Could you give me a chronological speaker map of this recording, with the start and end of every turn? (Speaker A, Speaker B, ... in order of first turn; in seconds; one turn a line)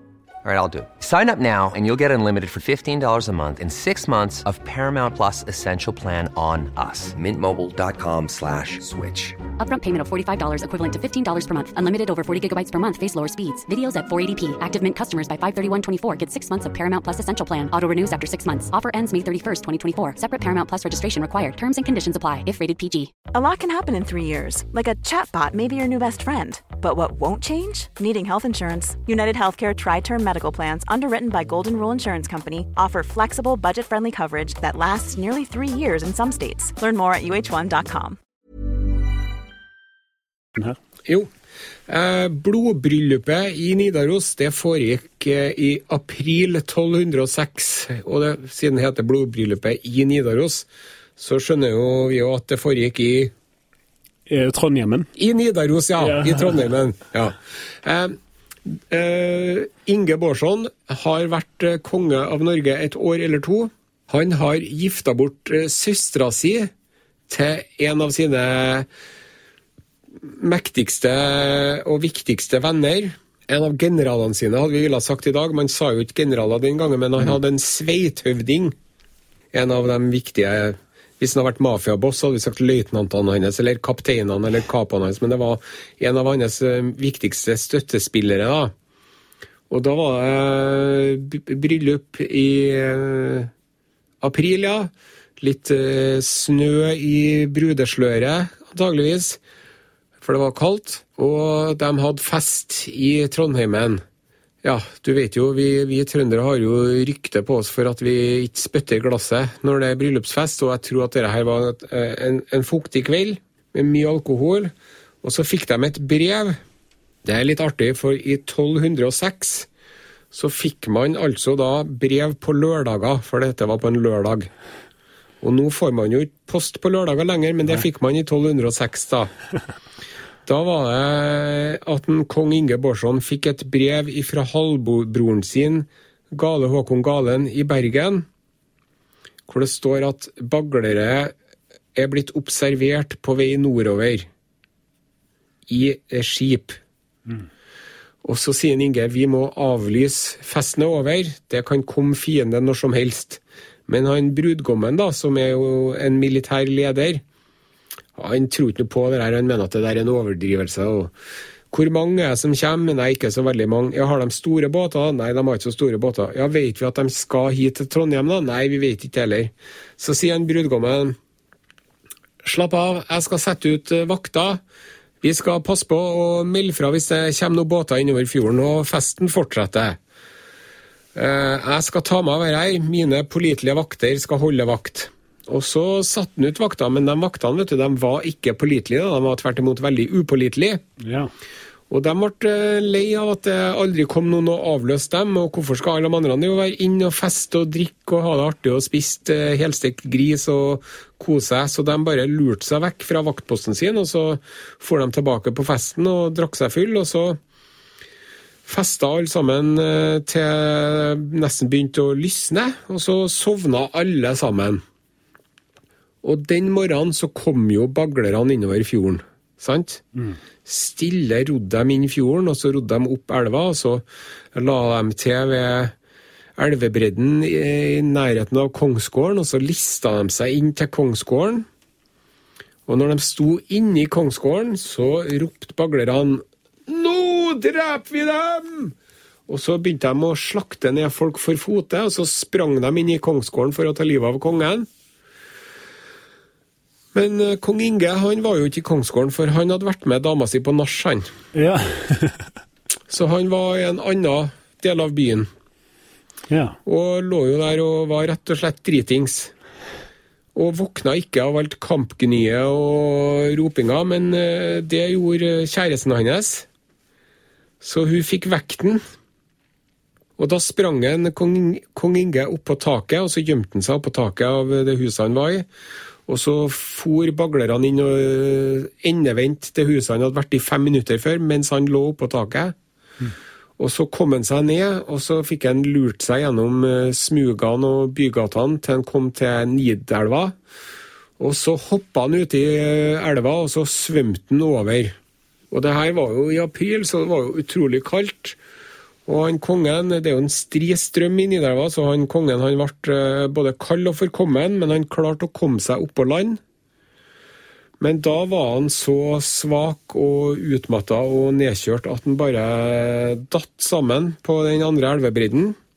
Speaker A: 0.4-9.4
Speaker B: 9.6-23.1
Speaker C: 23.3-38.2
Speaker D: 41.9-53.3
Speaker E: 54.3-55.1
Speaker D: 55.1-58.2
Speaker E: 56.0-56.4
Speaker D: 58.7-66.7
Speaker D: 67.3-68.9
Speaker D: 70.2-78.7
Speaker D: 79.5-88.7
Speaker D: 89.7-93.5
Speaker D: 94.2-99.4
Speaker D: 100.2-104.0
Speaker D: 104.6-114.7
Speaker D: 115.2-116.6
Speaker D: 117.2-119.7
Speaker D: 120.3-124.5
Speaker D: 125.4-129.3
Speaker D: 130.4-138.2
Speaker D: 139.5-141.3
Speaker D: 141.9-144.3
Speaker D: 145.7-146.8
Speaker D: 148.2-157.2
Speaker D: 158.2-161.1
Speaker D: 161.7-171.2
Speaker D: 172.4-174.6
Speaker D: 175.2-180.0
Speaker D: 181.1-190.8
Speaker E: 191.0-191.3
Speaker D: 191.9-207.4
Speaker D: 208.7-214.8
Speaker D: 216.2-220.0
Speaker D: 220.6-224.0
Speaker D: 224.5-225.9
Speaker D: 226.6-231.7
Speaker D: 232.9-238.9
Speaker D: 239.5-244.9
Speaker D: 247.1-251.3
Speaker E: 251.5-252.4
Speaker D: 253.1-255.5
Speaker E: 256.5-256.8
Speaker D: 256.8-259.5
Speaker D: 260.5-266.6
Speaker D: 267.8-269.0
Speaker D: 270.4-275.7
Speaker D: 276.3-282.7
Speaker D: 283.8-290.5
Speaker D: 291.4-295.1
Speaker D: 295.7-298.6
Speaker D: 299.2-306.6
Speaker D: 308.0-315.8